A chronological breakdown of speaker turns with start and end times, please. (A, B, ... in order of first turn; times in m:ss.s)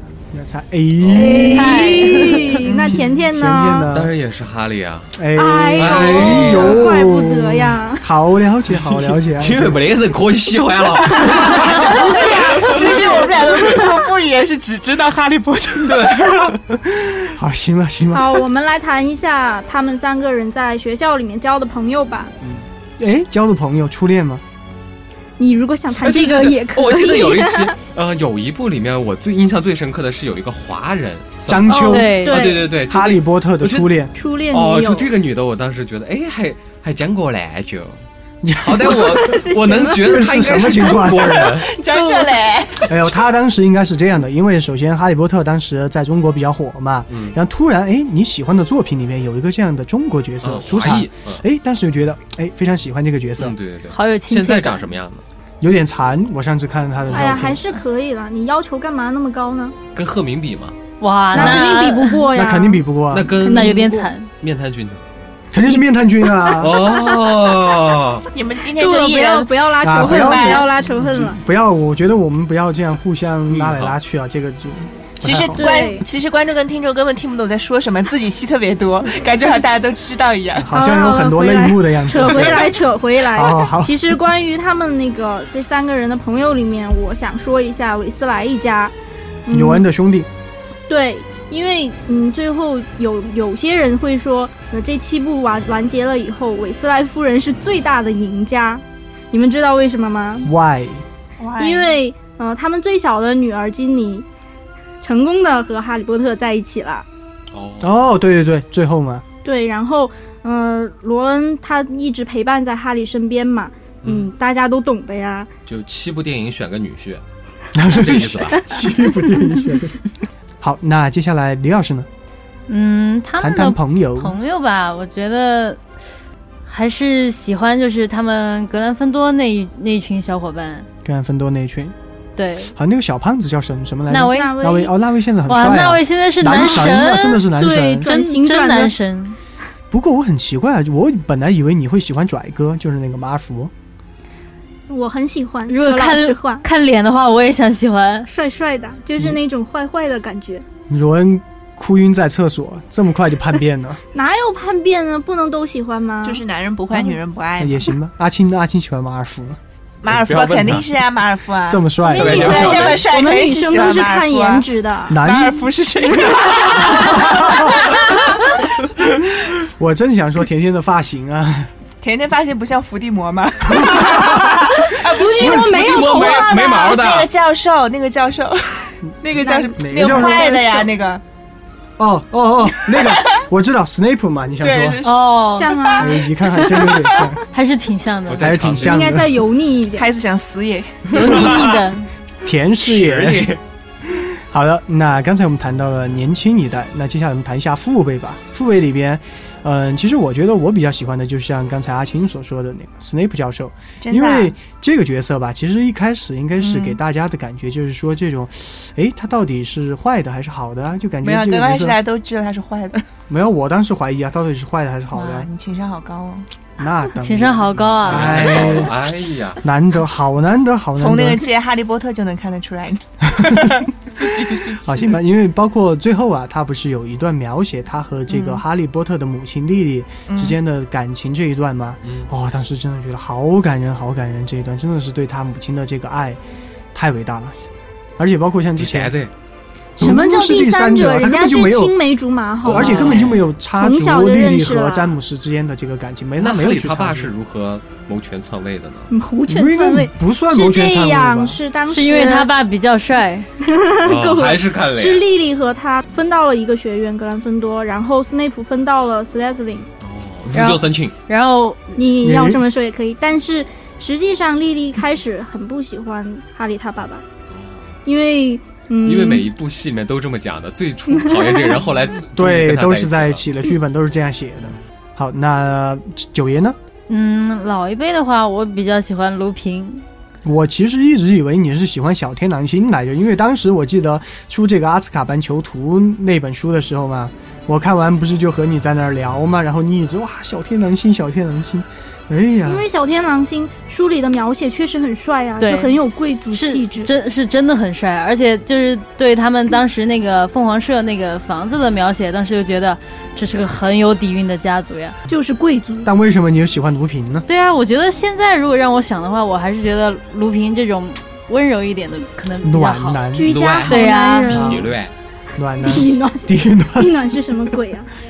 0:00.3-0:01.9 A
0:01.0-0:01.5 B
0:01.1-0:03.9 C
0:01.4-0:03.0 D
0:01.6-0:02.5 E
0:03.3-0:04.1 A
0:03.9-0:05.2 B
0:05.1-0:09.8 A
0:05.3-0:08.0 C
0:05.8-0:06.9 B
0:08.7-0:13.5 B
0:11.0-0:16.5 D
0:11.2-0:13.6 C
0:15.8-0:16.8 B
0:17.0-0:18.4 A
0:18.1-0:22.3 C
0:23.0-0:24.4 A
0:25.4-0:27.7 C
0:25.9-0:33.9 B
0:31.5-0:32.1 A
0:31.7-0:32.7 C
0:31.8-0:32.4 E
0:32.8-0:34.1 A
0:34.1-0:35.1 C
0:34.5-0:38.0 B
0:38.4-0:41.6 A
0:38.6-0:41.7 B
0:39.2-0:42.9 D
0:41.9-0:42.4 C
0:42.8-0:53.6 A
0:47.1-0:47.4 B
0:50.4-0:51.4 B
0:53.4-0:55.2 B
0:53.9-0:54.9 E
0:55.6-0:57.6 A
0:57.1-0:57.8 B
0:57.1-0:59.8 C
0:59.9-1:00.8 B
1:01.0-1:02.3 E
1:01.3-1:04.1 C
1:02.3-1:03.3 A
1:03.1-1:05.0 B
1:03.4-1:04.3 E
1:05.5-1:06.8 A
1:06.5-1:08.2 B
1:08.3-1:10.7 D
1:08.7-1:11.4 C
1:09.8-1:15.7 A
1:13.5-1:14.0 B
1:15.2-1:20.7 D
1:15.5-1:16.0 C
1:20.6-1:22.7 A
1:20.7-1:28.9 C
1:23.3-1:24.0 A
1:29.5-1:29.8 C
1:29.5-1:30.3 A
1:30.9-1:40.5 C
1:40.4-1:41.0 A
1:41.4-1:41.9 D
1:41.6-1:44.2 C
1:45.0-1:47.0 C
1:47.5-1:48.0 B
1:47.8-1:49.2 A
1:49.4-1:55.5 C
1:54.0-1:54.3 B
1:55.7-1:57.2 B
1:57.7-2:00.1 A
1:57.8-1:58.6 B
2:00.6-2:02.1 A
2:02.7-2:05.8 E
2:03.4-2:04.3 A
2:06.6-2:10.9 E
2:11.0-2:11.9 A
2:12.4-2:12.7 E
2:12.7-2:18.1 A
2:14.1-2:14.6 E
2:14.3-2:14.9 C
2:15.5-2:17.4 E
2:16.4-2:18.9 C
2:18.0-2:19.4 E
2:19.9-2:23.7 A
2:24.9-2:26.6 C
2:25.7-2:28.3 E
2:28.3-2:30.6 C
2:30.9-2:34.0 A
2:34.1-2:36.4 C
2:36.2-2:37.9 D
2:37.6-2:39.6 A
2:40.0-2:44.6 D
2:40.1-2:40.9 B
2:41.7-2:42.7 A
2:42.0-2:45.2 C
2:42.2-2:43.1 B
2:45.1-2:45.6 A
2:45.2-2:48.6 D
2:46.2-2:47.2 C
2:47.1-2:47.8 A
2:49.5-2:51.7 A
2:52.0-3:01.2 D
2:53.8-2:54.4 A
2:54.8-2:56.8 C
2:55.3-2:55.7 A
2:55.5-2:57.3 B
2:59.4-3:00.9 C
2:59.8-3:00.6 A
3:02.0-3:05.0 A
3:02.8-3:03.4 D
3:04.6-3:05.4 D
3:05.0-3:06.0 E
3:05.5-3:07.2 C
3:06.0-3:07.4 A
3:07.5-3:08.6 E
3:08.3-3:09.2 B
3:08.4-3:09.3 A
3:08.8-3:10.1 C
3:10.0-3:11.3 D
3:11.1-3:12.0 E
3:11.2-3:11.7 B
3:12.4-3:32.0 A
3:12.8-3:13.6 B
3:24.0-3:24.5 D
3:26.6-3:27.0 D
3:31.2-3:33.0 D
3:33.3-3:35.5 A
3:35.1-3:36.4 D
3:36.8-3:39.1 A
3:37.2-3:38.9 E
3:38.0-3:39.6 B
3:39.6-3:41.4 A
3:41.0-3:45.2 D
3:43.3-3:43.8 A
3:44.8-3:56.4 A
3:48.3-3:48.6 D
3:50.3-3:50.6 D
3:56.9-3:57.6 A
3:58.2-3:59.1 A
3:58.8-3:59.3 B
4:00.0-4:05.2 C
4:00.0-4:02.0 A
4:02.6-4:03.5 B
4:02.6-4:07.3 A
4:06.4-4:09.1 B
4:09.1-4:12.5 C
4:09.5-4:11.6 A
4:11.9-4:13.5 E
4:13.6-4:19.9 C
4:14.0-4:15.2 B
4:20.0-4:21.1 B
4:20.5-4:22.0 E
4:21.9-4:27.2 C
4:22.2-4:22.6 A
4:27.5-4:27.9 B
4:28.0-4:29.5 C
4:29.0-4:33.5 B
4:31.2-4:31.8 C
4:32.3-4:36.8 A
4:37.1-4:40.0 E
4:40.4-4:52.8 A
4:52.6-4:57.1 C
4:55.6-4:56.0 E
4:56.5-5:05.2 E
5:05.3-5:06.1 C
5:06.0-5:07.5 A
5:07.5-5:13.2 E
5:12.6-5:13.5 A
5:13.3-5:14.9 C
5:13.4-5:15.1 B
5:13.8-5:14.6 E
5:14.5-5:14.9 A
5:15.6-5:17.3 A
5:15.8-5:18.1 C